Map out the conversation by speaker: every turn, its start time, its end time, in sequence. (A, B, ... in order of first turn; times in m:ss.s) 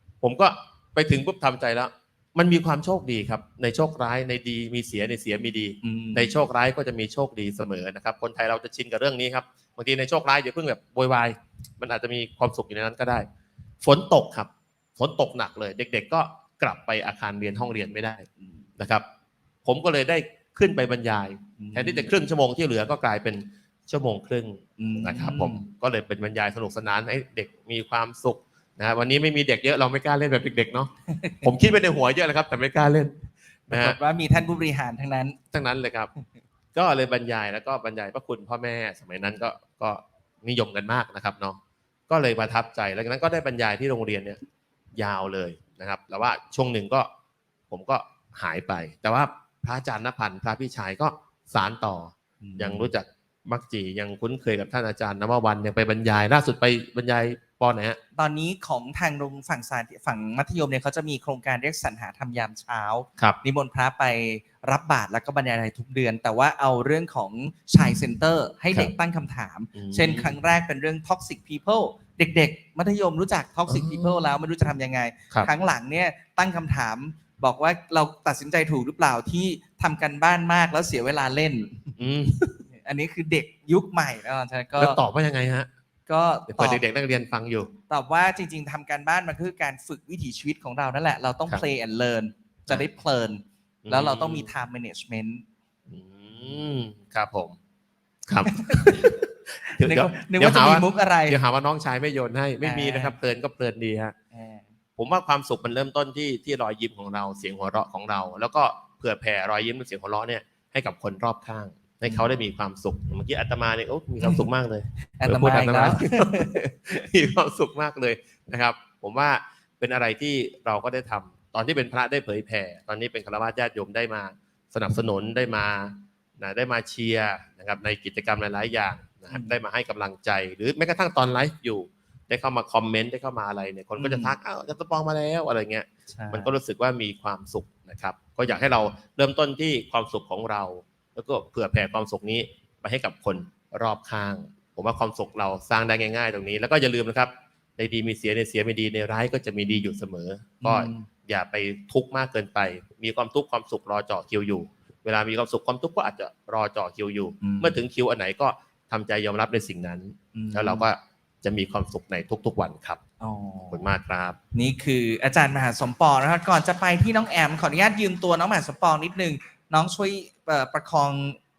0:00.2-0:13.3 A
0:05.8-0:06.3 B
0:13.8-0:18.3 A
0:18.8-0:19.0 A
0:19.6-0:30.9 A
0:21.6-0:22.1 B
0:24.8-0:25.6 B
0:31.4-0:34.0 A
0:33.7-0:35.4 B
0:35.5-0:36.1 A
0:36.7-0:44.4 A
0:44.9-0:47.1 A
0:47.7-0:58.0 A
0:52.4-0:52.9 B
0:58.2-1:21.9 B
1:09.7-1:10.3 A
1:13.7-1:14.2 A
1:22.0-1:22.6 A
1:22.7-1:25.0 B
1:24.8-1:25.7 A
1:26.1-1:26.8 B
1:26.5-1:27.7 A
1:27.9-1:35.4 B
1:33.8-1:34.5 A
1:35.9-1:37.6 A
1:38.3-1:44.2 A
1:38.5-1:41.4 B
1:42.6-1:43.1 B
1:44.3-1:44.6 B
1:45.0-2:43.0 A
1:55.2-1:56.6 B
2:14.0-2:14.3 B
2:16.1-2:16.5 B
2:30.6-2:31.1 B
2:37.4-2:37.8 B
2:40.3-2:40.8 B
2:43.2-2:43.9 B
2:43.7-2:44.4 A
2:44.5-2:51.4 B